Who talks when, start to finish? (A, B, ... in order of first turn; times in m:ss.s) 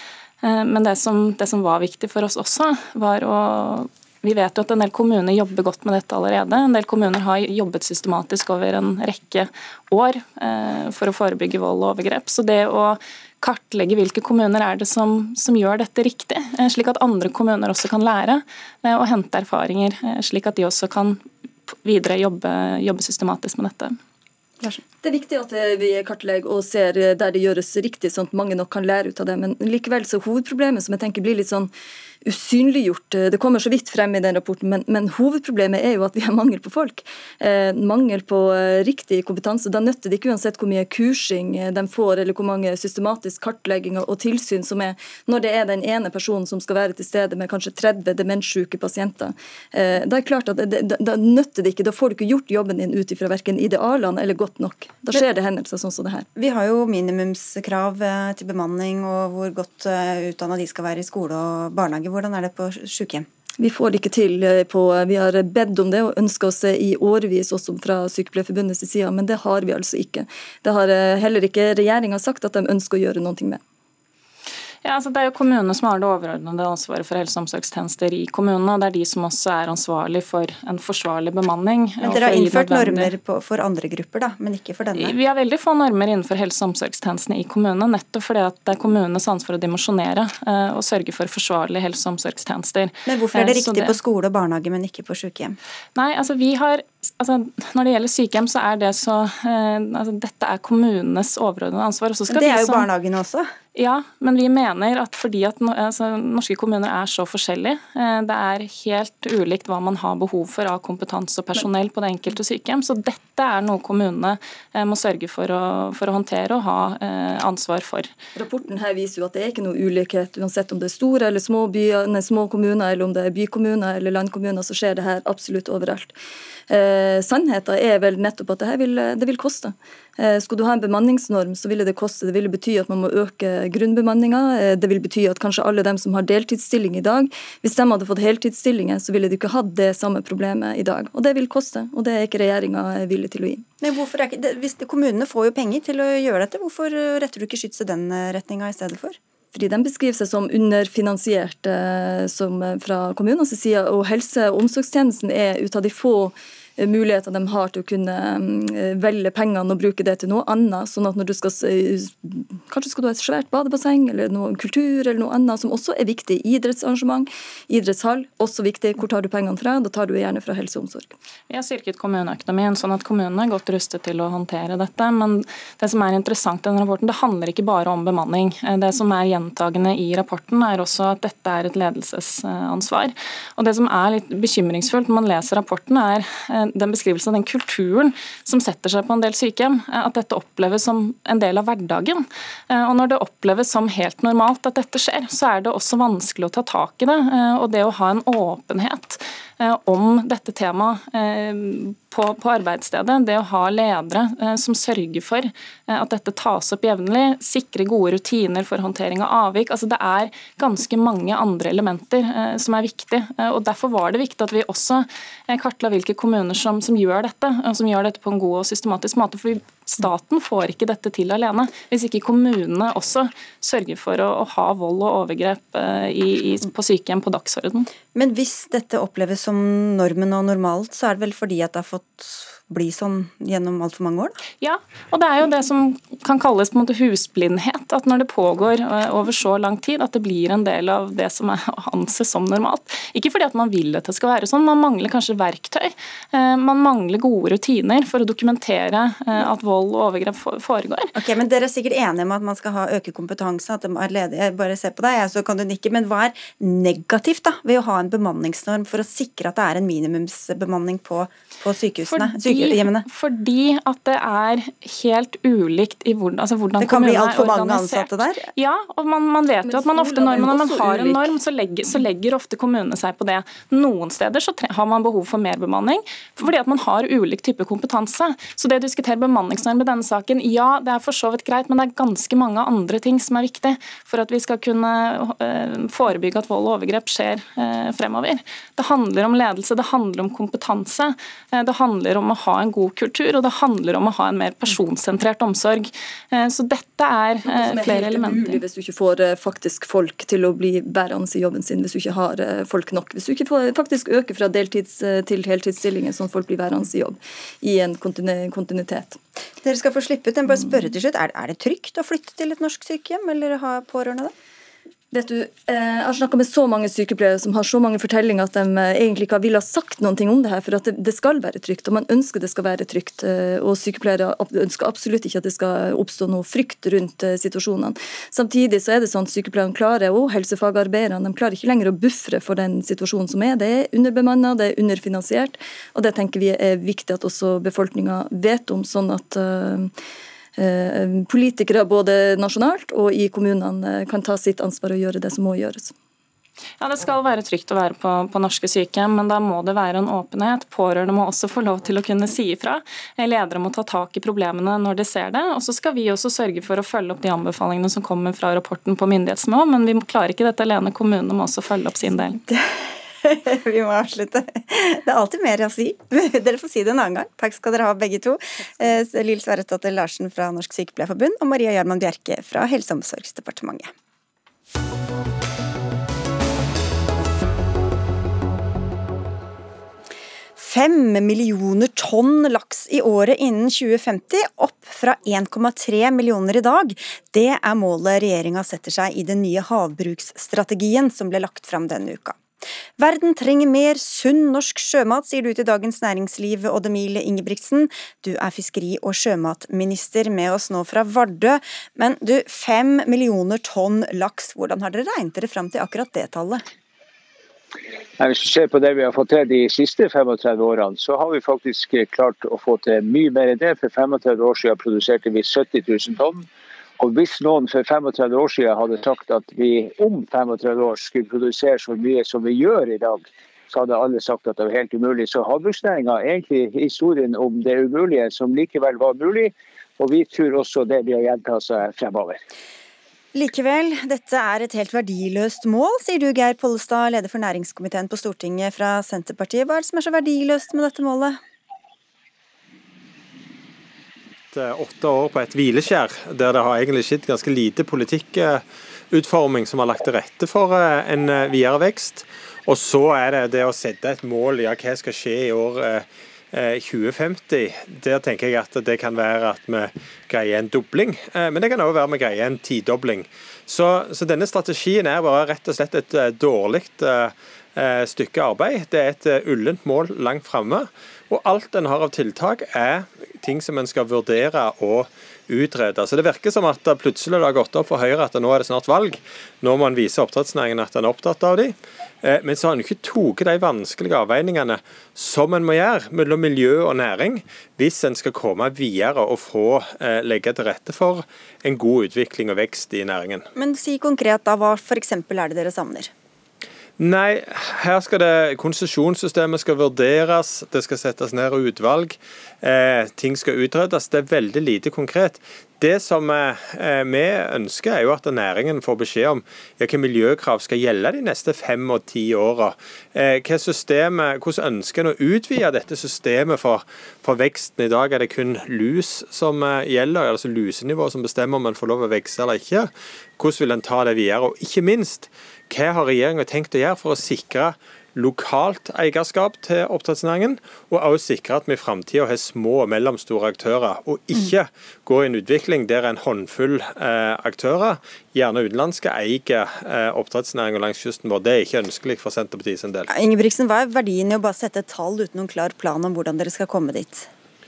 0:00.4-0:24.0 A
0:25.0-0:31.7 B
0:32.2-0:56.3 B
0:56.4-1:03.3 C
1:03.6-1:13.6 B
1:14.8-1:23.1 A
1:22.0-1:25.2 C
1:24.9-1:34.0 A
1:33.0-1:35.6 C
1:35.9-1:42.9 A
1:42.3-1:43.5 C
1:43.7-1:58.1 A
1:58.4-2:06.1 B
2:06.7-2:23.6 B
2:23.8-2:29.2 C
2:29.5-2:51.1 B
2:51.5-3:47.9 A
3:48.1-3:54.4 C
3:54.6-4:11.1 A
4:11.1-4:23.0 C
4:22.0-4:58.6 A
4:26.8-4:28.5 C
4:29.6-4:31.3 B
4:57.4-5:09.2 B
5:09.6-5:14.3 C
5:15.1-5:39.9 B
5:40.6-5:45.9 B
5:46.8-6:02.4 A
6:02.5-6:13.9 C
6:20.6-6:32.4 C
6:33.0-6:46.6 C
6:48.2-6:56.5 D
6:57.0-7:12.4 D
7:13.3-7:21.4 C
7:24.5-8:13.5 E
8:13.6-8:16.1 C
8:17.0-9:03.1 E
9:03.1-9:07.3 C